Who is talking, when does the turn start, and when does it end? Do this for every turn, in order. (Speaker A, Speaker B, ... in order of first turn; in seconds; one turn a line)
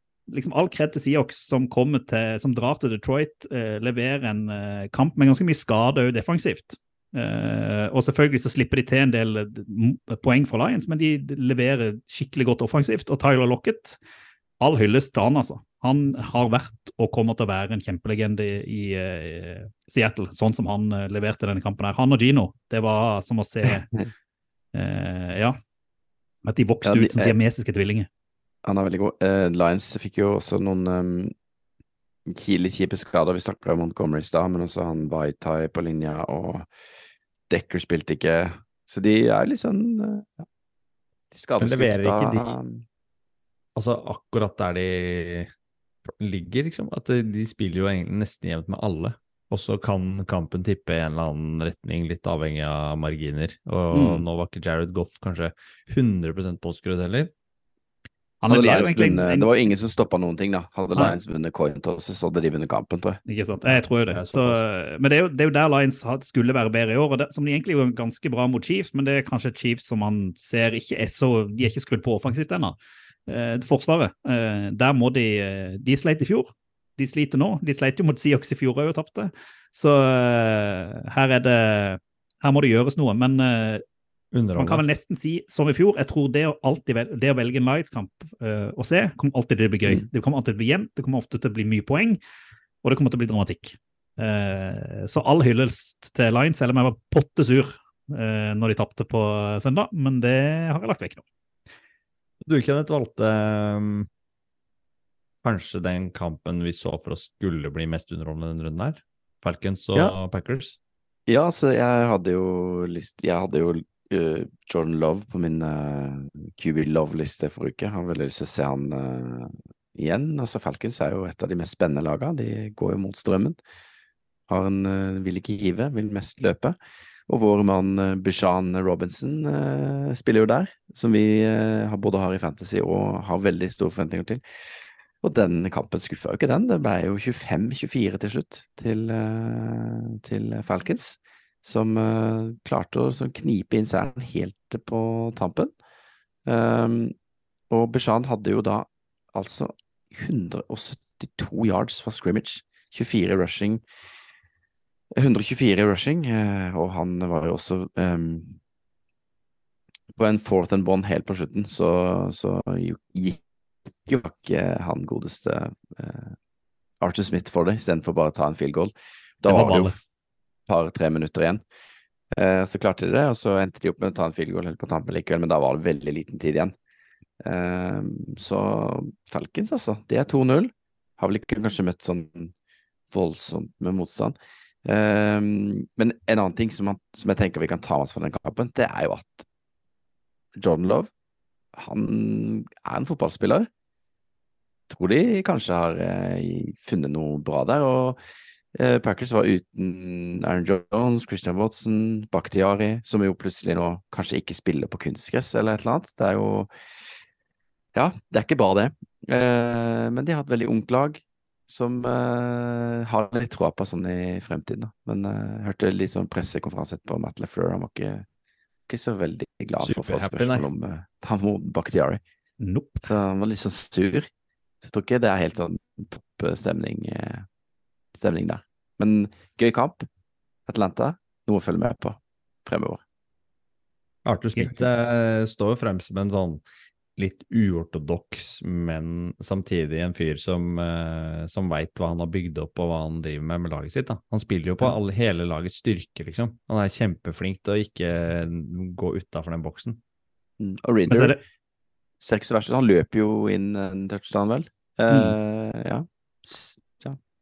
Speaker A: 0.3-14.0
Speaker A: 14.6-23.9
Speaker A: 24.7-25.6
Speaker A: 26.4-28.1
Speaker B: 26.9-27.4
Speaker B: 28.6-31.3
Speaker B: 32.3-36.7
Speaker B: 37.5-40.5
Speaker B: 41.3-42.8
Speaker C: 41.6-42.5
Speaker C: 43.8-45.5
Speaker C: 46.1-57.3
Speaker A: 53.9-54.2
Speaker A: 58.4-59.5
Speaker B: 58.5-63.2
Speaker A: 63.3-72.8
Speaker C: 64.1-64.6
Speaker A: 73.3-83.8
Speaker C: 84.3-84.8
Speaker A: 84.6-92.2
Speaker A: 92.8-101.2
Speaker C: 102.4-104.1
Speaker C: 105.4-110.8
Speaker B: 111.3-123.6
Speaker B: 124.5-126.8
Speaker B: 127.3-134.4
Speaker B: 135.2-145.7
Speaker B: 146.5-147.1
Speaker B: 147.7-153.8
Speaker B: 155.2-158.6
Speaker B: 160.2-163.4
Speaker B: 164.1-166.4
Speaker B: 167.0-169.9
Speaker A: 169.5-169.9
Speaker C: 169.5-169.9
Speaker B: 170.7-171.6
Speaker B: 172.3-176.7
Speaker B: 177.4-182.5
Speaker B: 183.1-189.4
Speaker B: 190.6-191.1
Speaker B: 191.8-193.7
Speaker B: 194.9-198.2
Speaker B: 198.8-206.7
Speaker B: 207.9-218.3
Speaker B: 218.9-222.2
Speaker C: 219.8-220.7
Speaker A: 222.6-223.1
Speaker B: 223.1-224.3
Speaker B: 224.8-227.5
Speaker B: 228.1-230.1
Speaker B: 230.7-233.0
Speaker C: 234.2-236.6
Speaker C: 237.2-250.0
Speaker B: 250.6-251.4
Speaker A: 251.1-251.4
Speaker B: 252.2-257.2
Speaker A: 255.1-255.4